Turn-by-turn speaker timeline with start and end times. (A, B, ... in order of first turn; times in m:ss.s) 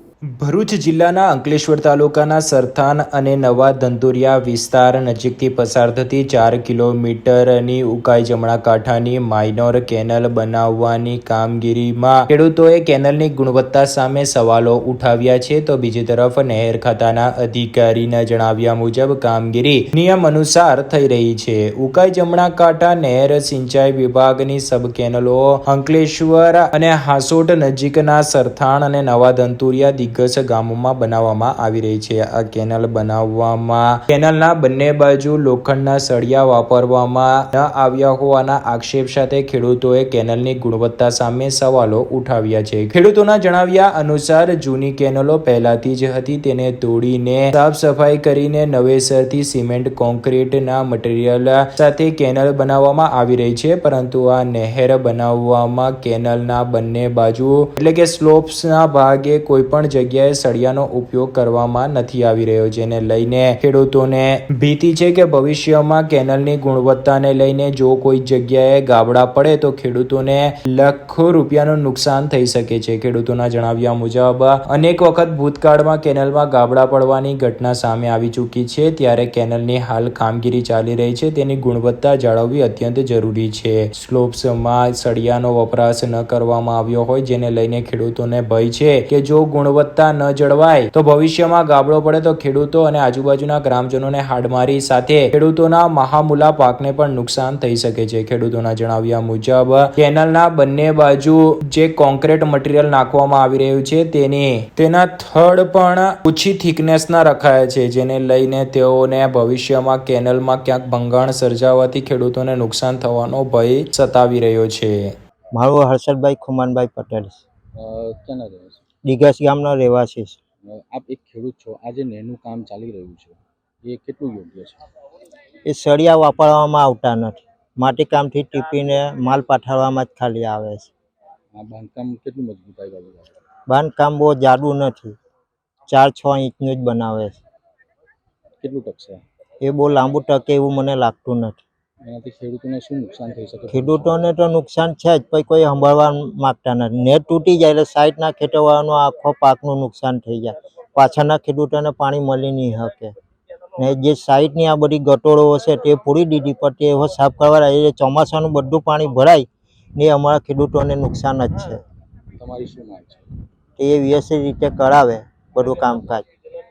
0:00.3-1:55.1 A
1:55.5-1:57.4 B
1:57.8-1:58.8 C
1:59.0-2:00.4 B
2:00.6-2:04.8 C
2:05.6-2:10.9 B
2:11.5-2:13.3 C
2:13.7-2:15.2 B
2:15.9-2:17.4 B
2:18.6-2:19.2 C
2:19.6-2:21.6 B
2:22.0-2:24.1 C
2:23.7-2:33.1 B
2:33.8-2:41.8 B
2:42.4-2:43.2 C
2:43.8-2:46.2 B